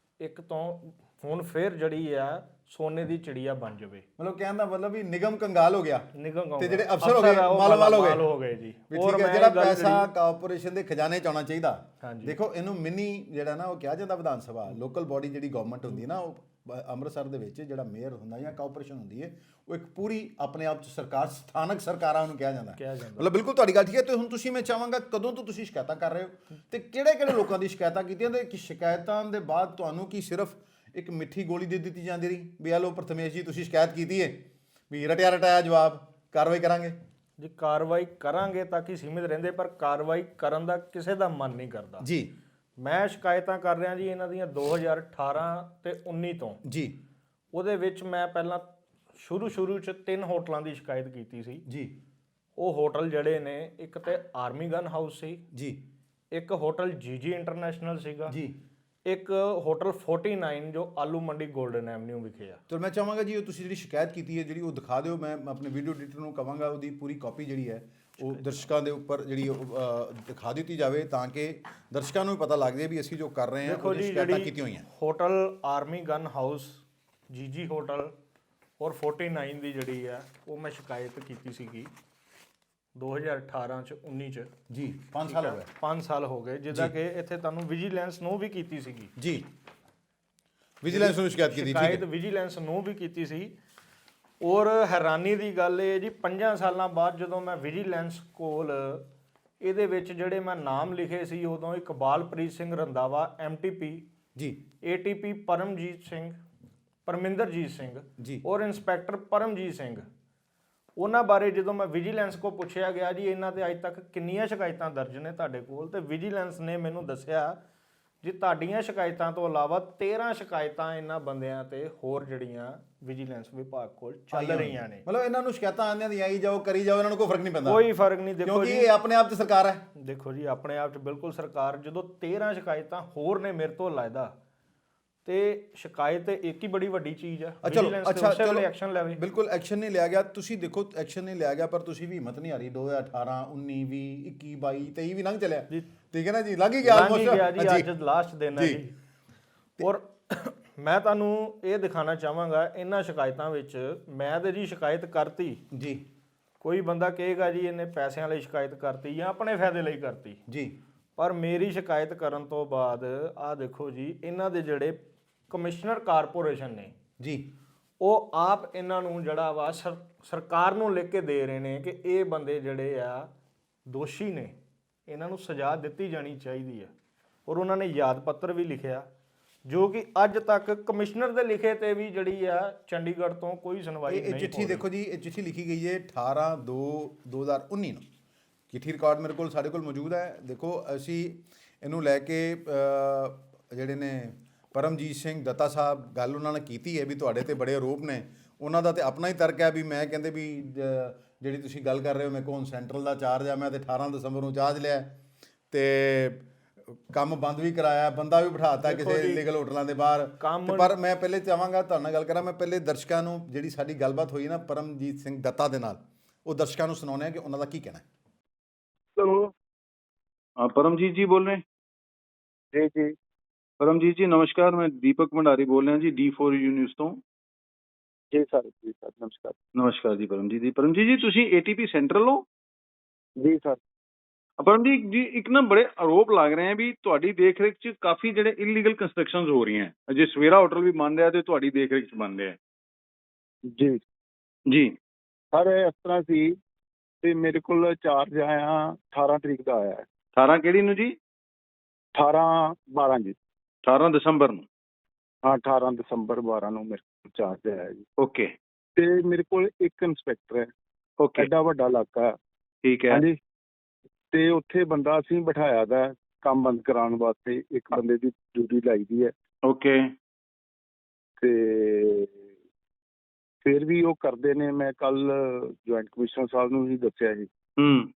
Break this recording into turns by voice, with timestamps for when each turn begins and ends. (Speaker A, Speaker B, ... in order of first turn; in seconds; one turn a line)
Speaker A: 0.2-4.0
Speaker B: 4.2-8.3
Speaker A: 6.2-10.1
Speaker B: 8.9-37.0
Speaker A: 12.0-12.3
Speaker A: 22.8-23.3
Speaker A: 37.4-42.1
Speaker B: 42.0-42.3
Speaker A: 42.8-46.6
Speaker B: 46.6-47.0
Speaker A: 47.5-51.6
Speaker B: 51.7-52.0
Speaker A: 52.6-55.5
Speaker B: 55.5-55.8
Speaker A: 56.3-58.4
Speaker B: 58.3-58.6
Speaker A: 59.1-62.6
Speaker B: 62.7-74.9
Speaker A: 68.3-68.6
Speaker A: 73.6-78.1
Speaker A: 78.8-81.9
Speaker A: 83.0-84.5
Speaker B: 84.7-85.7
Speaker A: 85.3-89.1
Speaker B: 89.2-89.5
Speaker B: 90.8-92.0
Speaker A: 90.9-93.5
Speaker A: 94.4-99.1
Speaker A: 99.6-104.0
Speaker B: 104.4-104.6
Speaker A: 104.8-106.4
Speaker A: 107.1-110.0
Speaker B: 108.2-108.4
Speaker A: 111.0-117.6
Speaker A: 118.2-125.0
Speaker B: 124.3-127.8
Speaker A: 127.7-128.9
Speaker B: 128.4-129.9
Speaker A: 130.0-134.3
Speaker A: 135.2-139.2
Speaker B: 137.6-147.9
Speaker A: 146.8-148.9
Speaker B: 148.6-148.8
Speaker A: 149.8-155.6
Speaker B: 155.7-156.0
Speaker A: 156.6-160.4
Speaker B: 160.5-160.8
Speaker A: 161.2-165.0
Speaker A: 165.5-166.9
Speaker B: 167.2-167.5
Speaker A: 168.0-173.3
Speaker A: 173.9-174.6
Speaker A: 175.1-176.9
Speaker A: 177.5-179.1
Speaker A: 179.7-184.8
Speaker B: 184.1-188.1
Speaker B: 188.7-205.1
Speaker B: 205.7-206.4
Speaker B: 207.1-218.0
Speaker A: 208.8-209.4
Speaker A: 210.4-210.9
Speaker C: 219.2-219.4
Speaker D: 220.6-221.6
Speaker C: 222.7-223.2
Speaker D: 223.8-227.2
Speaker C: 228.3-229.6
Speaker D: 229.8-232.4
Speaker C: 233.4-233.8
Speaker D: 234.6-242.6
Speaker C: 243.7-244.0
Speaker D: 244.7-245.0
Speaker C: 245.5-246.5
Speaker C: 247.2-250.1
Speaker D: 250.4-251.2
Speaker C: 252.2-253.4
Speaker D: 253.8-254.7
Speaker C: 255.4-258.0
Speaker D: 258.2-258.5
Speaker C: 259.0-260.7
Speaker D: 261.2-261.5
Speaker C: 261.4-262.4
Speaker D: 262.8-263.2
Speaker C: 263.1-263.4
Speaker C: 264.3-269.3
Speaker D: 269.6-270.1
Speaker C: 271.4-272.4
Speaker C: 273.6-277.5
Speaker D: 277.8-278.1